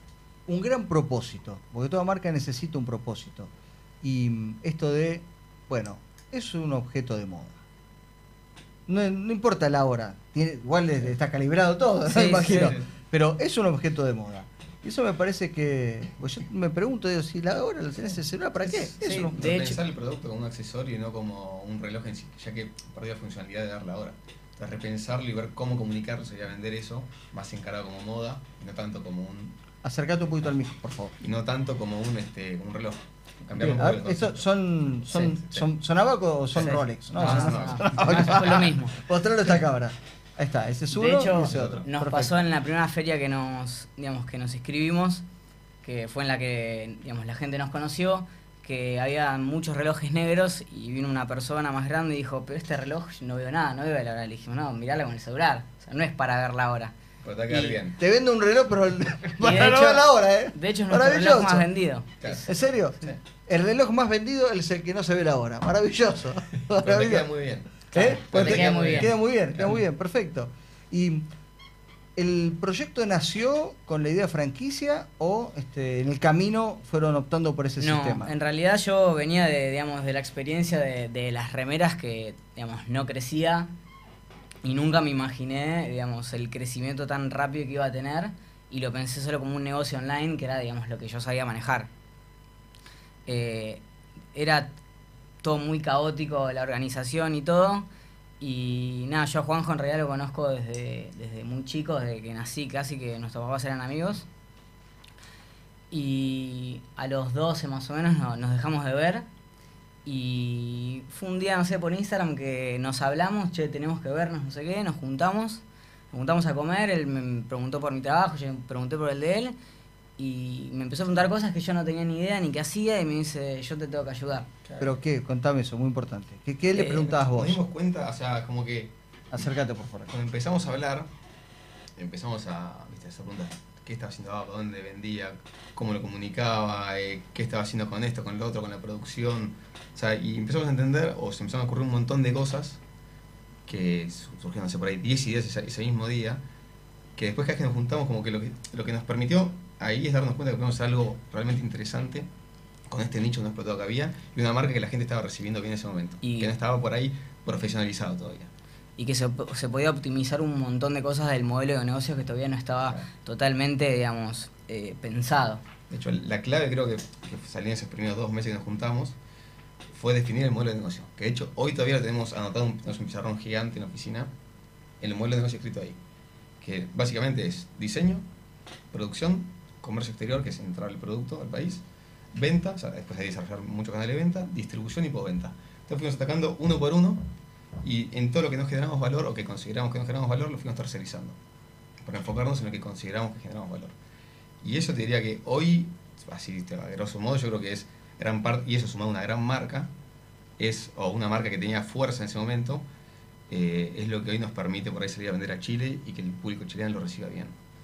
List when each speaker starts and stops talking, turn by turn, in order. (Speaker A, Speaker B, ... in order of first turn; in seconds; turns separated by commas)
Speaker A: 0.5-3.5, Speaker A: 4.0-7.6, Speaker A: 8.9-19.5, Speaker B: 12.1-12.4, Speaker C: 12.4-12.9, Speaker C: 18.6-29.6, Speaker B: 19.0-19.8, Speaker A: 29.8-31.1, Speaker C: 31.2-34.4, Speaker A: 33.6-42.3, Speaker C: 35.1-35.7, Speaker C: 36.6-38.4, Speaker B: 36.6-39.0, Speaker B: 40.9-45.2, Speaker C: 41.4-41.9, Speaker B: 45.8-56.9, Speaker C: 57.2-58.0, Speaker B: 57.5-57.8, Speaker A: 58.0-61.7, Speaker B: 59.4-62.5, Speaker A: 62.5-67.2, Speaker C: 66.8-69.8, Speaker B: 67.9-69.1, Speaker A: 67.9-71.2, Speaker A: 72.2-78.3, Speaker B: 77.8-83.7, Speaker B: 84.6-91.9, Speaker B: 93.2-93.8, Speaker B: 94.3-94.7, Speaker B: 95.4-97.9, Speaker B: 98.4-104.2, Speaker B: 105.9-109.3, Speaker B: 110.0-119.5, Speaker B: 120.2-124.5, Speaker C: 124.6-124.9, Speaker A: 124.8-127.6, Speaker C: 126.8-129.4, Speaker A: 129.3-130.1, Speaker C: 130.1-131.1, Speaker C: 132.0-142.8, Speaker C: 143.7-146.4, Speaker C: 147.2-152.3, Speaker C: 152.9-158.5, Speaker B: 156.2-156.5, Speaker B: 159.0-165.6, Speaker C: 165.9-169.2, Speaker C: 169.9-174.3, Speaker C: 175.0-176.0, Speaker C: 176.6-178.2, Speaker C: 178.9-181.8, Speaker C: 182.3-187.3, Speaker C: 187.8-191.4, Speaker C: 192.0-194.0, Speaker C: 194.6-199.9, Speaker C: 200.6-202.9, Speaker C: 203.5-207.6